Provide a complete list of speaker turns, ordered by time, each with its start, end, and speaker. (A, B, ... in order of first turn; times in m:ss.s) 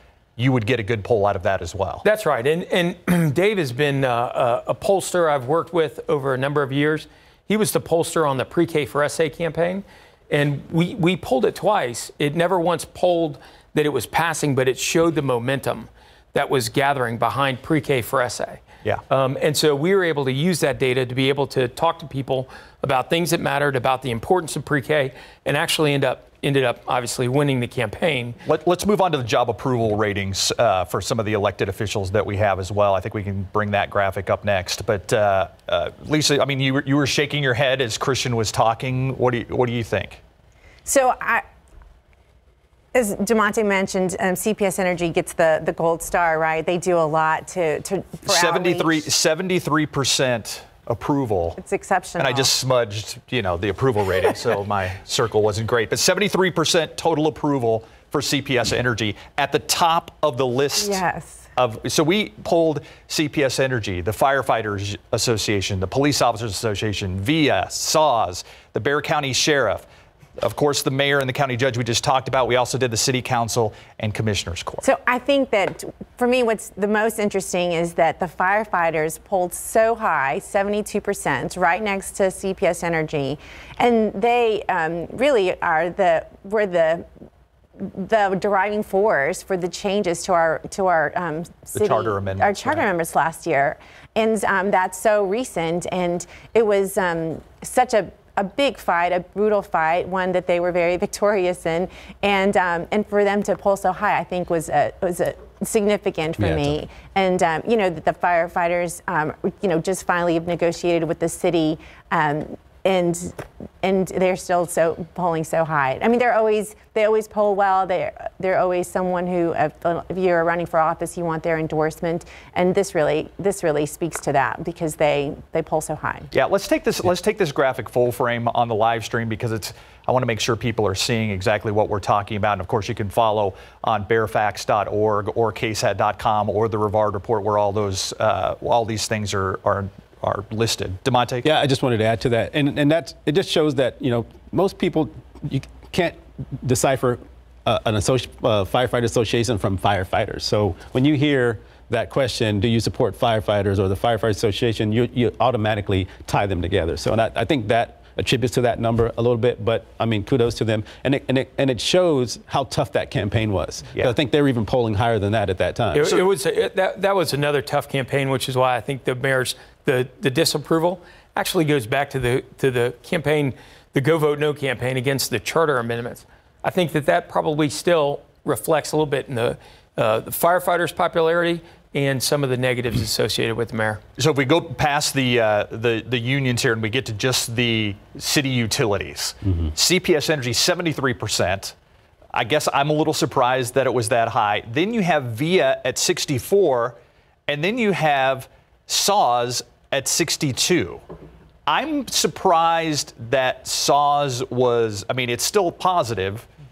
0:00.4-0:02.0 A
0:02.0-0:28.4 B
0:28.4-0:40.2 A
0:40.8-0:41.4 C
0:42.9-0:49.0 C
0:48.3-0:51.6 A
0:51.6-0:52.5 C
0:52.2-1:01.0 A
1:00.8-1:01.5 C
1:01.6-1:09.8 A
1:10.4-1:14.8 A
1:14.8-1:27.1 C
1:27.8-2:06.3 C
1:31.7-1:32.8 A
1:46.4-1:46.8 D
2:06.3-2:21.5 A
2:21.4-2:46.1 D
2:45.9-3:04.0 B
3:04.2-3:11.7 A
3:12.3-3:21.0 A
3:21.7-3:26.5 A